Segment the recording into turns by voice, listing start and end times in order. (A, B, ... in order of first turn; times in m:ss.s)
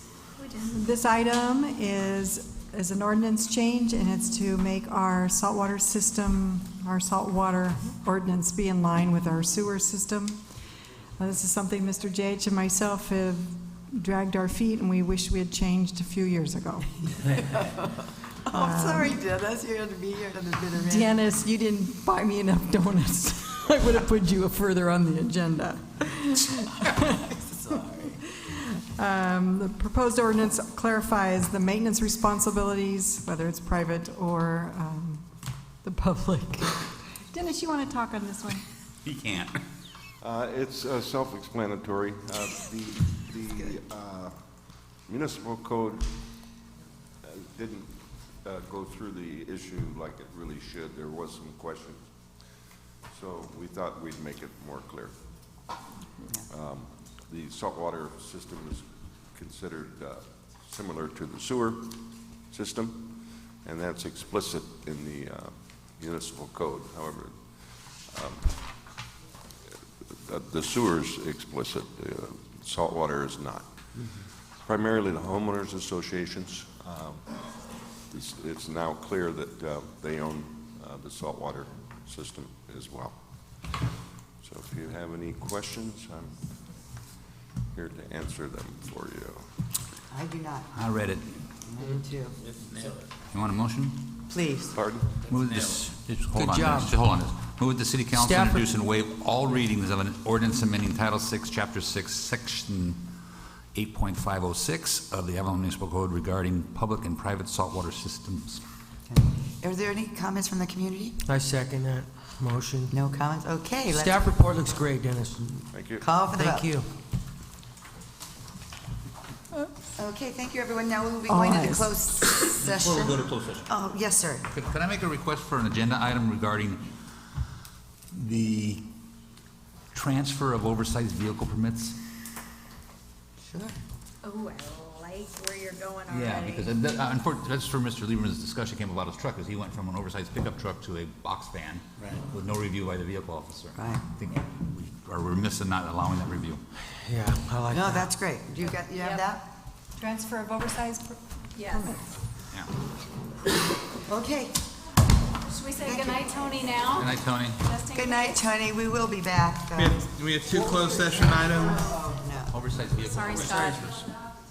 0:00.4-0:00.7 A
0:00.6-0:10.4 B
0:11.2-0:16.9 B
0:17.3-0:18.0 C
0:18.5-0:21.1 C
0:18.5-0:19.2 B
0:20.8-0:27.3 B
0:27.7-0:28.1 C
0:28.4-0:35.3 B
0:35.8-0:38.6 B
0:39.0-0:39.6 D
0:40.2-0:44.3 E
0:45.1-0:46.1 E
0:47.2-0:47.9 E
0:48.4-0:52.0 E
0:53.1-0:55.2 E
0:56.4-1:03.1 E
1:03.6-1:07.4 E
1:08.1-1:08.5 E
1:10.1-1:13.7 E
1:14.6-1:17.2 E
1:18.1-1:23.1 E
1:24.4-1:26.4 E
1:27.7-1:29.4 E
1:30.1-1:30.7 C
1:30.7-1:31.4 D
1:31.7-1:32.4 C
1:33.3-1:34.1 D
1:34.3-1:34.8 C
1:34.7-1:35.1 E
1:35.3-1:43.0 D
1:36.4-1:36.9 F
1:38.3-1:38.6 F
1:43.7-1:48.6 D
1:49.1-1:51.2 C
1:51.2-1:52.9 F
1:52.9-1:54.3 C
1:53.9-1:55.7 F
1:55.7-1:56.1 E
1:56.0-1:56.8 C
1:56.3-1:56.9 F
2:00.0-2:04.4 C
2:01.3-2:01.9 B
2:02.6-2:03.7 D
2:04.5-2:06.8 D
2:08.1-2:08.8 D
2:09.9-2:12.0 D
2:13.4-2:13.7 C
2:14.2-2:16.7 A
2:16.1-2:26.6 D
2:23.7-2:24.0 C
2:27.1-2:28.1 F
2:27.7-2:29.4 C
2:30.0-2:32.1 B
2:31.6-2:31.9 A
2:34.0-2:34.6 C
2:35.4-2:38.4 A
2:35.8-2:36.3 C
2:36.9-2:37.6 D
2:37.9-2:40.0 C
2:39.7-2:41.9 G
2:40.7-2:41.2 C
2:41.8-2:42.5 C
2:42.5-2:44.1 D
2:43.0-2:43.9 A